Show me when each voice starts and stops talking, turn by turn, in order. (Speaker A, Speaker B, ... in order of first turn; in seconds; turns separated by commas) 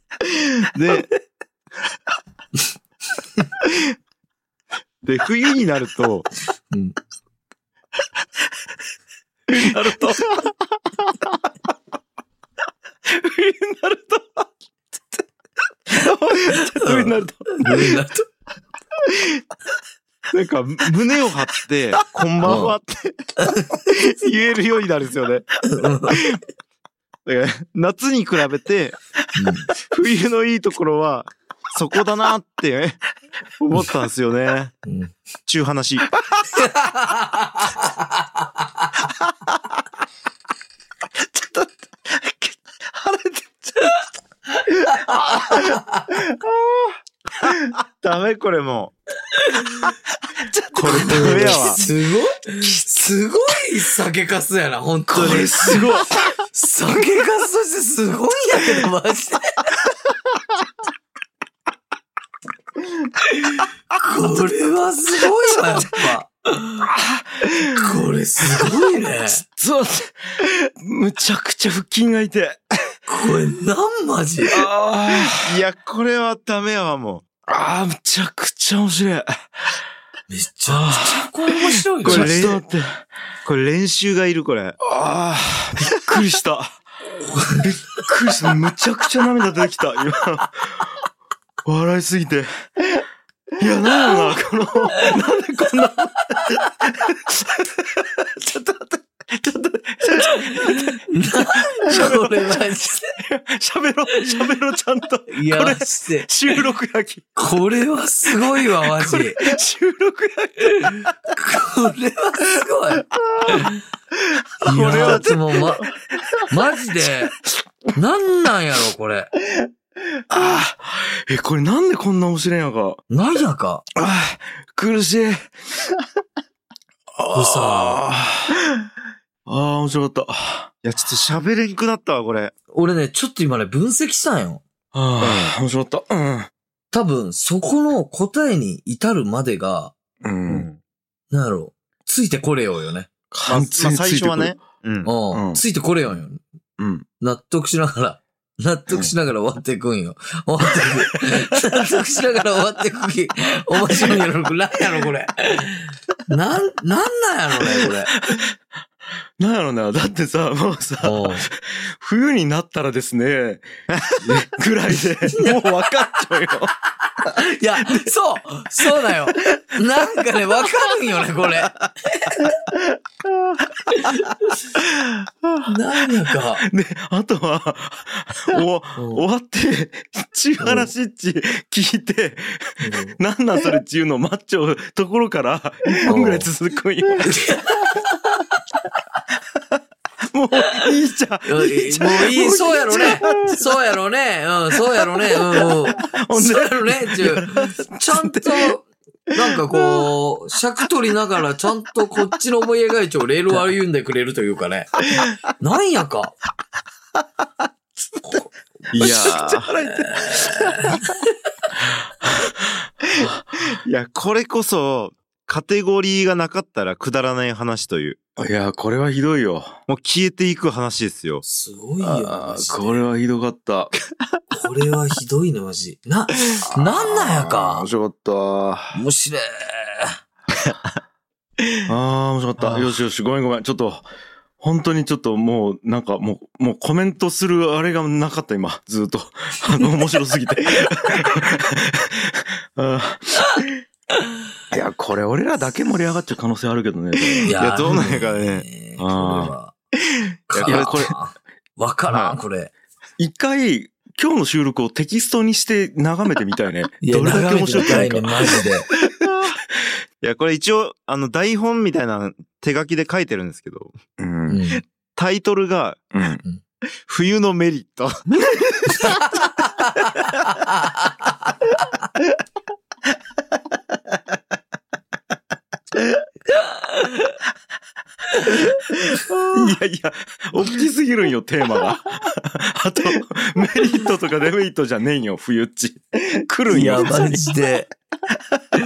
Speaker A: 0.2-1.1, Speaker A: 3.6-3.9, Speaker A: 5.0-6.3, Speaker B: 6.7-7.0, Speaker C: 9.5-10.3, Speaker A: 10.4-11.3, Speaker C: 13.1-15.2, Speaker C: 15.9-18.0, Speaker B: 16.5-18.2, Speaker A: 19.1-19.4, Speaker A: 20.3-23.3, Speaker B: 22.4-22.7, Speaker B: 23.4-23.7, Speaker A: 23.9-25.5, Speaker B: 25.6-26.2, Speaker A: 26.1-26.4, Speaker A: 27.2-29.0, Speaker B: 29.3-29.7, Speaker A: 29.8-33.0, Speaker A: 33.6-34.7, Speaker B: 34.9-35.1, Speaker A: 35.5-36.1, Speaker B: 36.5-38.2, Speaker C: 41.2-44.0, Speaker B: 44.8-46.1, Speaker A: 46.1-46.9, Speaker A: 47.5-48.9, Speaker B: 49.4-49.9, Speaker C: 50.4-51.9, Speaker A: 50.7-51.8, Speaker B: 50.8-59.8, Speaker C: 52.6-52.9, Speaker C: 55.1-56.3, Speaker B: 63.2-66.9, Speaker C: 65.5-65.8, Speaker C: 66.8-67.5, Speaker B: 67.6-69.4, Speaker C: 69.2-72.7, Speaker B: 73.1-74.7, Speaker C: 74.5-75.5, Speaker A: 75.1-77.2, Speaker C: 77.5-79.5, Speaker B: 80.3-82.4, Speaker C: 80.7-83.0, Speaker A: 82.0-82.6, Speaker A: 83.4-84.8, Speaker C: 84.8-86.8, Speaker B: 87.3-87.6, Speaker C: 87.5-90.9, Speaker C: 91.6-92.5, Speaker C: 93.6-101.0, Speaker B: 100.2-103.2, Speaker C: 101.5-107.3, Speaker B: 105.3-106.5, Speaker B: 107.3-109.5, Speaker C: 108.5-111.1, Speaker B: 110.6-113.8, Speaker B: 114.6-115.8, Speaker C: 114.6-115.7, Speaker A: 114.8-115.2, Speaker B: 116.5-117.3, Speaker B: 118.0-119.3, Speaker C: 120.3-123.0, Speaker B: 123.1-123.8, Speaker C: 124.0-125.5, Speaker C: 127.1-128.6, Speaker B: 127.3-128.0, Speaker C: 129.4-130.7, Speaker A: 130.8-132.5, Speaker B: 132.7-134.6, Speaker C: 134.9-136.5, Speaker A: 135.2-135.5, Speaker B: 136.9-139.9, Speaker C: 140.2-140.7, Speaker A: 140.5-140.8, Speaker B: 141.3-143.1, Speaker C: 143.3-144.6, Speaker A: 143.5-145.1, Speaker B: 145.0-146.4, Speaker C: 145.3-145.6, Speaker C: 146.8-147.0, Speaker B: 147.2-158.1, Speaker C: 153.9-154.2, Speaker C: 157.7-158.4, Speaker C: 159.4-168.1, Speaker B: 161.0-161.5, Speaker A: 163.9-164.4, Speaker B: 165.3-165.7, Speaker B: 167.2-172.6, Speaker B: 173.9-174.7, Speaker C: 174.9-175.2, Speaker B: 175.6-176.6, Speaker C: 176.6-187.4, Speaker B: 178.9-179.2, Speaker B: 180.6-180.9, Speaker B: 182.8-183.2, Speaker B: 186.1-186.5, Speaker B: 187.2-188.6, Speaker C: 190.3-193.6, Speaker B: 191.4-204.9, Speaker C: 194.8-198.7, Speaker B: 205.6-206.3, Speaker A: 208.9-209.7, Speaker C: 208.9-210.9, Speaker B: 209.0-209.3, Speaker B: 210.1-211.3, Speaker C: 211.9-212.4, Speaker C: 213.0-213.7, Speaker A: 213.8-218.2, Speaker C: 218.4-219.8, Speaker A: 219.9-221.4, Speaker B: 221.4-223.0, Speaker C: 222.0-223.9, Speaker B: 224.5-227.9, Speaker C: 226.6-229.0, Speaker B: 228.9-230.2, Speaker A: 231.6-231.9, Speaker C: 231.9-234.1, Speaker A: 232.6-232.8, Speaker C: 234.6-243.7, Speaker C: 244.7-247.6, Speaker A: 247.3-248.7, Speaker B: 247.4-249.7, Speaker C: 249.0-249.5, Speaker A: 250.1-251.1, Speaker B: 250.5-252.7, Speaker C: 250.6-251.1, Speaker C: 252.1-252.3, Speaker C: 253.2-258.6, Speaker B: 257.0-258.9, Speaker A: 257.8-258.1, Speaker A: 259.2-259.6, Speaker A: 260.2-263.9, Speaker C: 264.2-264.6, Speaker B: 264.5-264.8, Speaker A: 265.1-266.0, Speaker C: 266.1-266.4, Speaker A: 267.1-268.3, Speaker A: 268.9-269.2, Speaker B: 276.8-277.3, Speaker A: 279.2-279.6, Speaker C: 279.4-287.5, Speaker B: 286.7-287.9